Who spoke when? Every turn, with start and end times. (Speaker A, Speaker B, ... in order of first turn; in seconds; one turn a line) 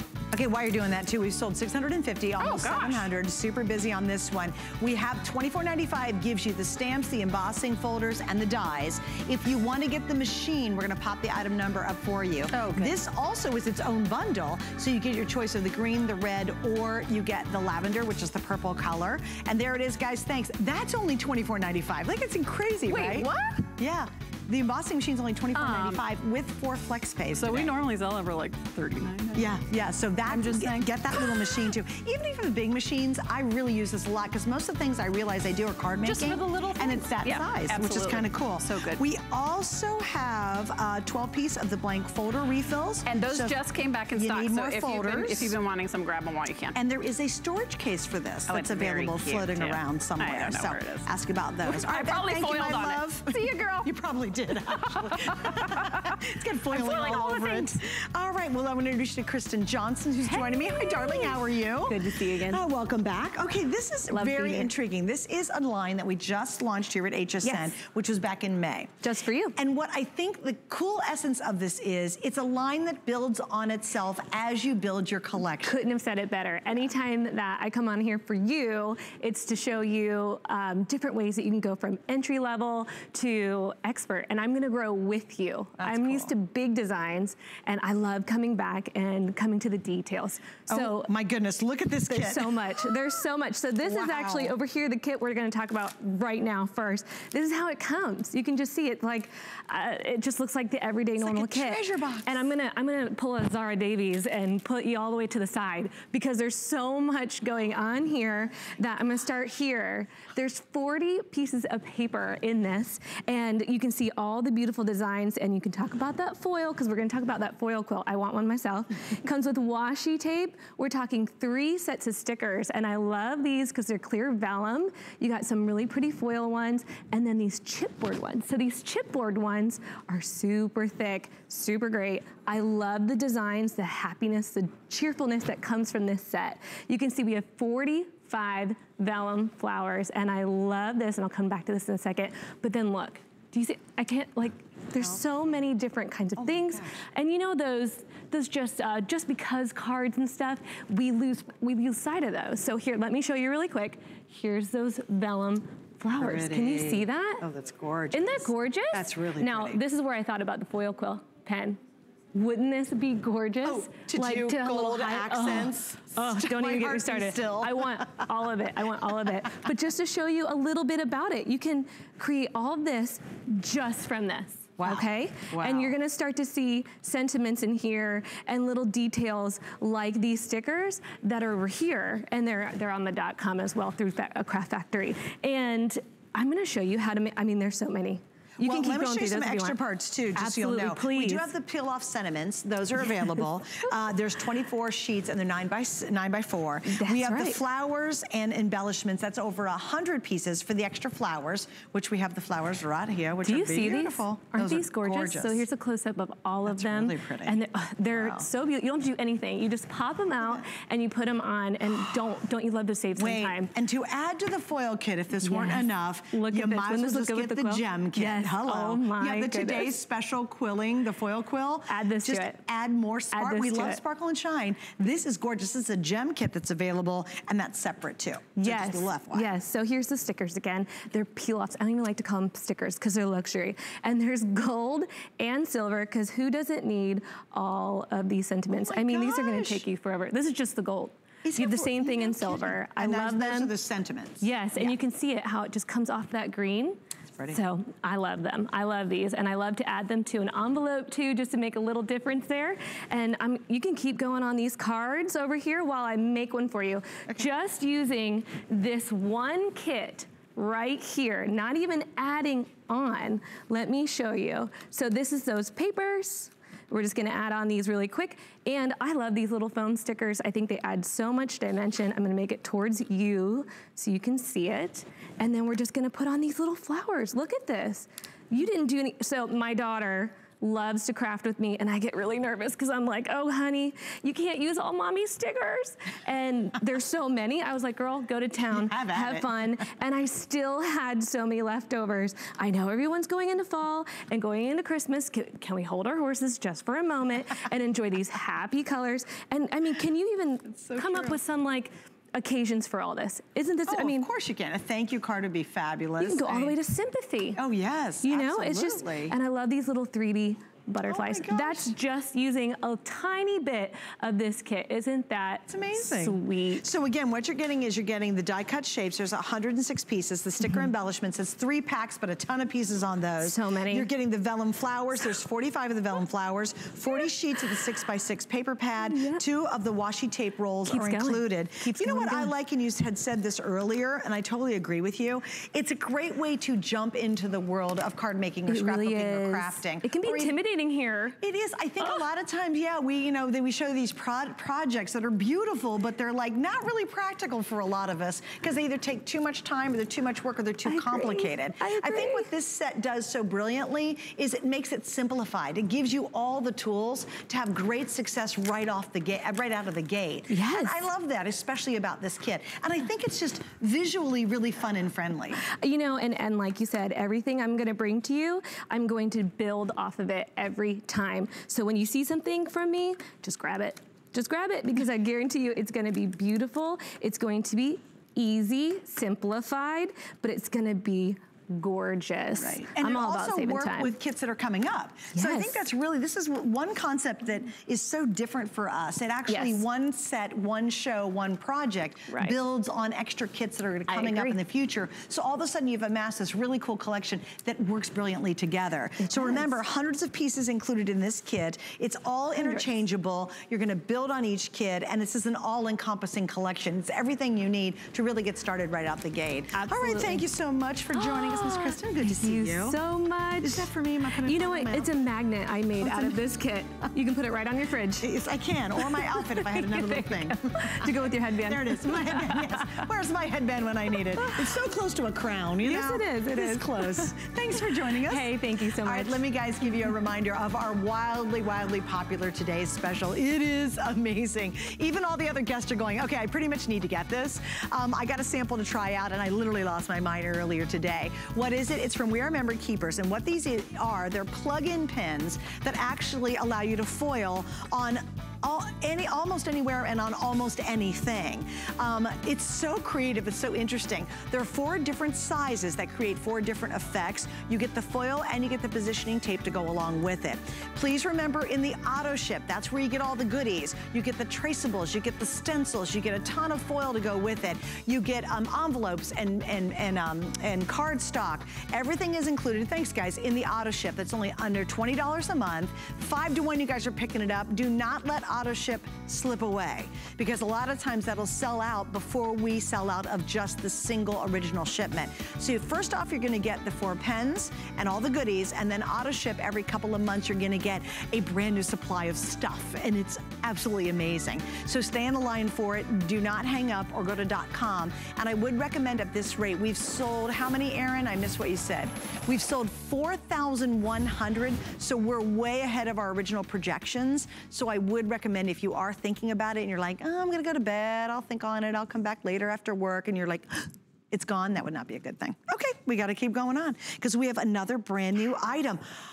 Speaker A: 0.3-27.7
Speaker B: 2.4-3.0
Speaker B: 12.5-12.9
Speaker B: 22.9-23.6
Speaker B: 25.5-26.0
Speaker B: 27.3-29.6
Speaker A: 29.4-43.6
Speaker B: 30.3-31.5
Speaker B: 36.0-39.0
Speaker B: 43.0-46.8
Speaker A: 44.1-45.5
Speaker A: 46.7-75.8
Speaker B: 48.5-51.1
Speaker B: 51.6-53.9
Speaker B: 54.7-57.8
Speaker C: 60.3-62.6
Speaker C: 64.1-64.7
Speaker C: 67.4-67.7
Speaker C: 69.0-69.6
Speaker C: 75.6-91.1
Speaker A: 85.8-86.3
Speaker A: 90.7-92.9
Speaker C: 92.1-157.4
Speaker A: 93.8-94.5
Speaker A: 101.2-102.4
Speaker A: 145.0-145.6
Speaker A: 146.4-147.0
Speaker A: 156.1-159.8
Speaker C: 158.1-161.8
Speaker C: 162.3-189.8
Speaker A: 163.6-168.3
Speaker A: 174.8-175.9
Speaker A: 188.6-205.6
Speaker C: 190.3-191.5
Speaker C: 196.9-197.6
Speaker C: 203.4-213.7
Speaker A: 206.7-207.6
Speaker A: 208.1-208.5
Speaker A: 213.2-229.5
Speaker C: 215.4-219.9
Speaker C: 221.9-222.6
Speaker C: 223.3-224.0
Speaker C: 228.6-243.7
Speaker A: 238.7-239.8
Speaker A: 241.4-245.0
Speaker C: 244.4-304.3
Speaker A: 288.7-289.5
Speaker A: 300.7-301.4
Speaker A: 303.9-306.8
Speaker C: 306.2-307.6
Speaker A: 307.6-309.4
Speaker C: 308.2-316.8
Speaker A: 311.1-312.0
Speaker A: 315.7-340.5
Speaker C: 323.4-324.1
Speaker C: 329.0-329.4
Speaker C: 330.9-332.5
Speaker C: 338.7-341.4
Speaker A: 341.4-365.6
Speaker C: 350.8-352.5
Speaker C: 360.5-361.1
Speaker C: 365.8-384.1
Speaker A: 382.6-413.0
Speaker C: 385.3-385.8
Speaker C: 389.5-389.8
Speaker C: 392.3-392.6
Speaker C: 394.1-394.6
Speaker C: 399.2-399.7
Speaker C: 402.6-402.9
Speaker C: 409.7-410.4
Speaker C: 411.1-418.3
Speaker A: 413.6-415.1
Speaker A: 416.0-416.4
Speaker A: 418.2-519.0
Speaker C: 419.0-423.1
Speaker C: 424.4-424.8
Speaker C: 425.8-429.4